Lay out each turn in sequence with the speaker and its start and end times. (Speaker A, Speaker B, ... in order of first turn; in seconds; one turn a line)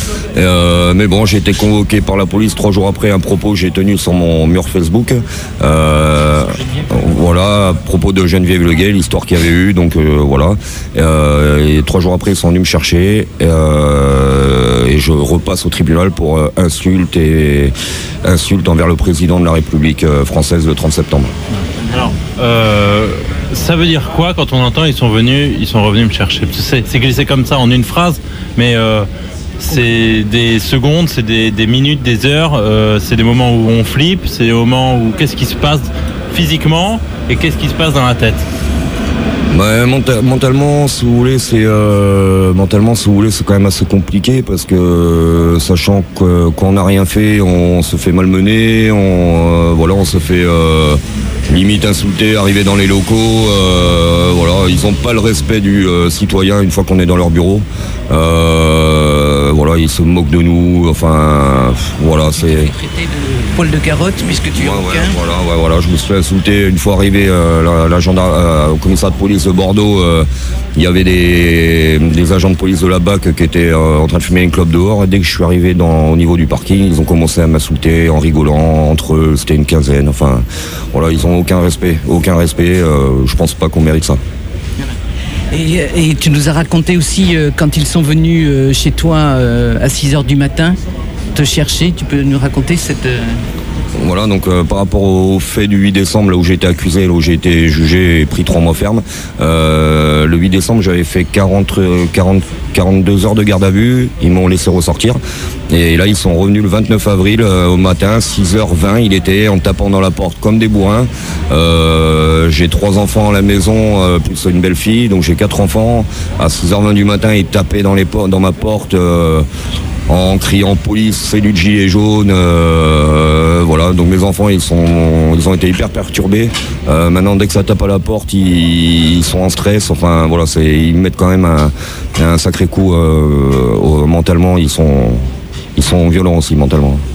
Speaker A: 0.3-17.7
Speaker A: 18.2-21.3
Speaker B: 21.6-29.1
Speaker B: 29.6-38.5
Speaker A: 39.5-62.7
Speaker C: 62.4-65.2
Speaker A: 64.5-84.2
Speaker C: 85.5-90.8
Speaker C: 91.3-93.4
Speaker A: 94.0-105.2
Speaker A: 105.7-119.5
Speaker A: 120.1-135.2
Speaker A: 135.8-137.0